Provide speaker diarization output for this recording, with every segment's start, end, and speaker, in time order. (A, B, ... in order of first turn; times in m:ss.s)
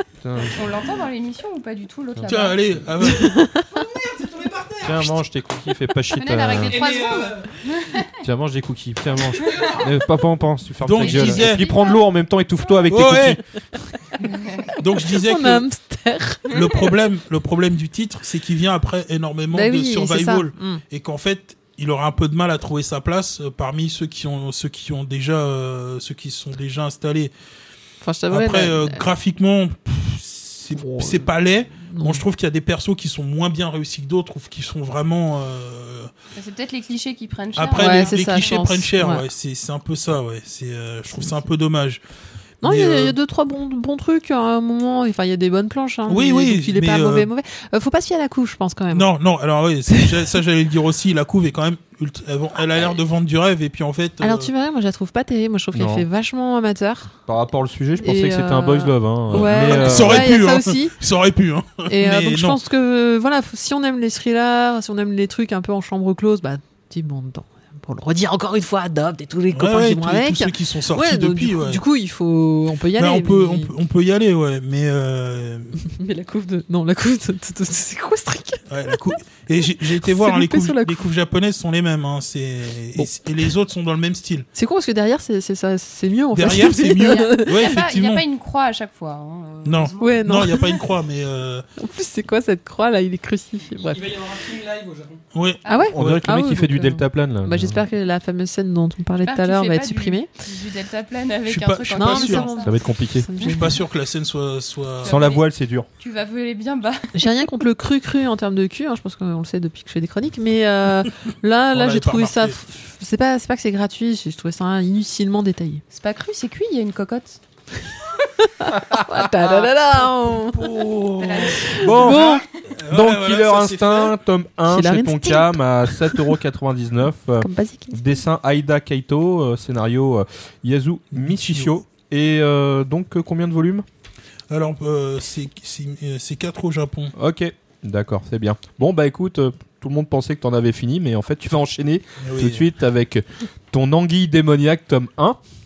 0:00.2-0:00.7 A
0:00.5-0:02.6 B
0:02.3-0:03.4 C
0:03.0-0:03.7 D
0:03.6-0:05.2 E
0:04.8-0:07.0 A
0:06.1-0:08.1 B
0:06.7-0:07.6 E
0:08.2-0:13.4 A
0:09.4-0:09.9 E
0:10.8-0:11.7 C
0:11.0-0:12.0 B
0:12.9-0:13.4 C
0:14.2-0:14.7 B
0:14.8-0:15.6 C
0:14.8-0:16.8 D
0:16.5-0:27.3 C
0:19.5-0:20.8 D
0:28.0-0:29.1 D
0:28.3-0:36.1 C
0:30.8-0:32.2 D
0:36.4-0:38.6 B
0:37.6-0:42.0 C
0:37.8-0:39.2 D
0:42.6-0:43.2 C
0:42.6-0:49.1 D
0:46.1-0:47.3 C
0:48.9-0:54.5 C
0:54.2-0:57.1 D
0:55.7-0:56.1 A
0:57.3-1:00.3 A
0:58.0-1:01.0 D
0:59.3-1:02.6 C
1:01.9-1:13.7 D
1:09.5-1:11.8 C
1:13.0-1:15.8 C
1:15.8-1:19.1 D
1:18.7-1:24.5 C
1:19.8-1:21.0 D
1:24.6-1:27.7 D
1:26.3-1:28.2 C
1:27.0-1:30.8 B
1:29.6-1:31.7 C
1:30.0-1:30.6 D
1:31.8-1:34.1 D
1:33.8-1:35.2 E
1:35.3-1:36.2 C
1:35.6-1:35.9 B
1:35.7-1:40.3 D
1:35.9-1:37.8 A
1:39.2-1:42.7 B
1:41.5-1:42.5 C
1:42.0-1:43.8 D
1:42.6-1:43.3 A
1:43.5-1:45.3 C
1:45.0-1:45.5 B
1:45.1-1:45.9 A
1:46.0-1:47.1 B
1:47.1-1:55.8 D
1:51.7-1:52.6 C
1:55.9-1:57.4 B
1:58.4-2:00.6 D
2:00.4-2:04.2 C
2:01.2-2:02.0 B
2:01.6-2:02.4 D
2:01.8-2:13.8 A
2:04.7-2:06.2 D
2:07.4-2:08.1 D
2:11.1-2:11.7 C
2:14.5-2:17.1 C
2:17.2-2:25.4 A
2:22.2-2:22.6 C